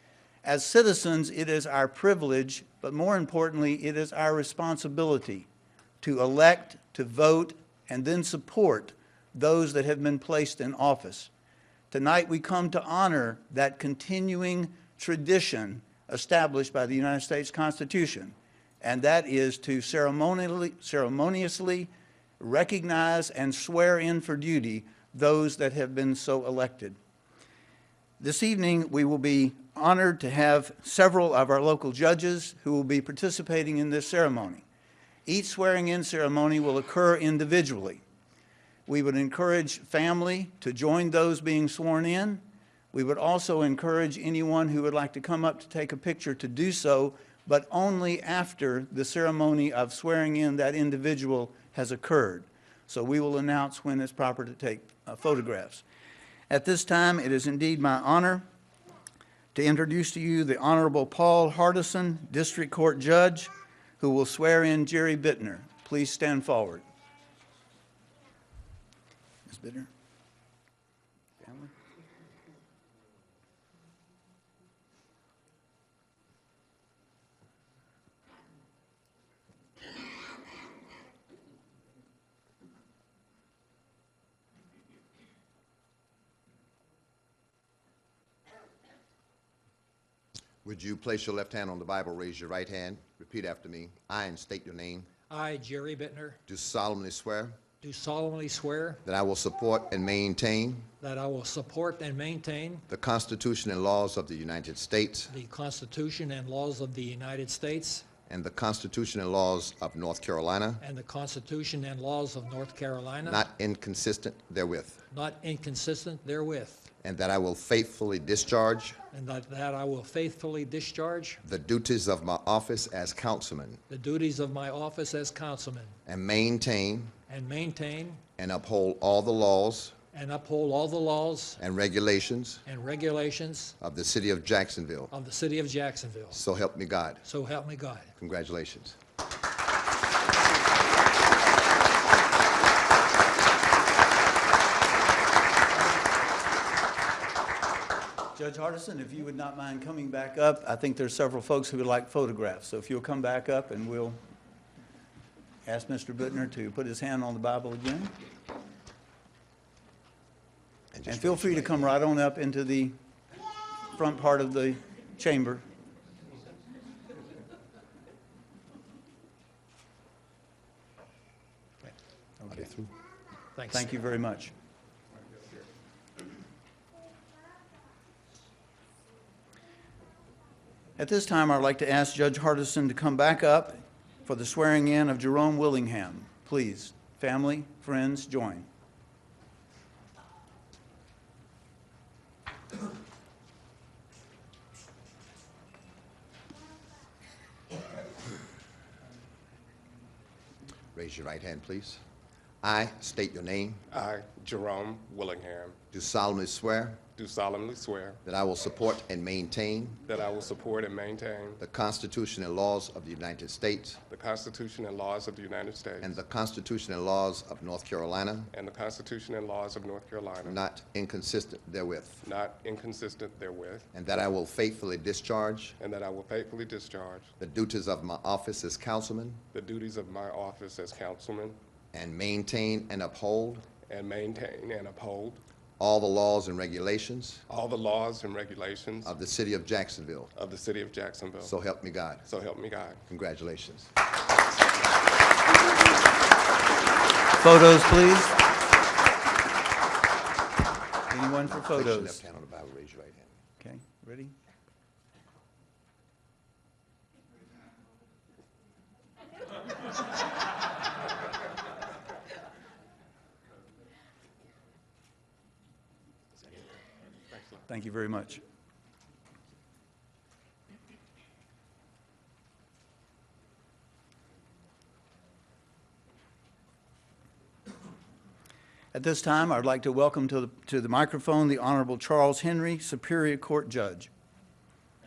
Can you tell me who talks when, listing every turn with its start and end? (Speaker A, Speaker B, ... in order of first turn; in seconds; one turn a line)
Speaker A: 0.4-5.5
Speaker A: 6.0-11.3
Speaker A: 11.9-27.0
Speaker A: 28.2-34.6
Speaker A: 35.2-38.0
Speaker A: 38.9-55.8
Speaker A: 56.5-58.4
Speaker A: 59.5-66.8
Speaker A: 69.5-69.9
Speaker A: 71.4-71.7
Speaker B: 90.6-95.1
Speaker C: 95.3-96.4
Speaker B: 96.5-97.6
Speaker C: 97.8-99.0
Speaker B: 99.0-100.9
Speaker C: 101.0-102.8
Speaker B: 102.9-105.3
Speaker C: 105.3-108.0
Speaker B: 108.3-110.8
Speaker C: 110.8-113.4
Speaker B: 113.2-115.0
Speaker C: 115.1-116.9
Speaker B: 117.0-119.0
Speaker C: 119.1-121.4
Speaker B: 121.4-123.8
Speaker C: 123.9-125.9
Speaker B: 126.0-127.1
Speaker C: 127.3-128.2
Speaker B: 128.4-129.9
Speaker C: 130.1-131.6
Speaker B: 131.6-132.6
Speaker C: 132.7-133.7
Speaker B: 133.8-135.1
Speaker C: 135.1-136.4
Speaker B: 136.3-137.2
Speaker C: 137.2-138.1
Speaker B: 138.2-138.9
Speaker A: 148.3-154.2
Speaker A: 155.7-158.1
Speaker B: 160.9-161.9
Speaker A: 161.1-162.9
Speaker A: 163.9-165.6
Speaker A: 172.4-172.7
Speaker B: 172.5-172.9
Speaker C: 173.6-173.9
Speaker A: 173.7-174.5
Speaker A: 181.0-188.7
Speaker B: 200.9-202.0
Speaker B: 202.6-203.8
Speaker D: 203.9-205.8
Speaker B: 205.9-207.0
Speaker D: 207.2-208.2
Speaker B: 208.2-210.0
Speaker D: 210.1-211.6
Speaker B: 211.6-214.0
Speaker D: 214.1-216.2
Speaker B: 216.0-218.5
Speaker D: 218.5-220.6
Speaker B: 220.4-222.2
Speaker D: 222.2-223.9
Speaker B: 223.9-225.7
Speaker D: 225.8-227.3
Speaker B: 227.4-229.4
Speaker D: 229.5-231.6
Speaker B: 231.9-233.7
Speaker D: 233.9-235.4
Speaker B: 235.8-237.4
Speaker D: 237.5-239.1
Speaker B: 239.0-240.3
Speaker D: 240.3-241.5
Speaker B: 241.4-242.2
Speaker D: 242.2-243.0
Speaker B: 243.1-243.9
Speaker A: 247.4-248.3
Speaker A: 251.1-252.2
Speaker B: 251.5-253.3
Speaker A: 253.6-254.3
Speaker A: 267.7-268.4
Speaker A: 278.9-284.1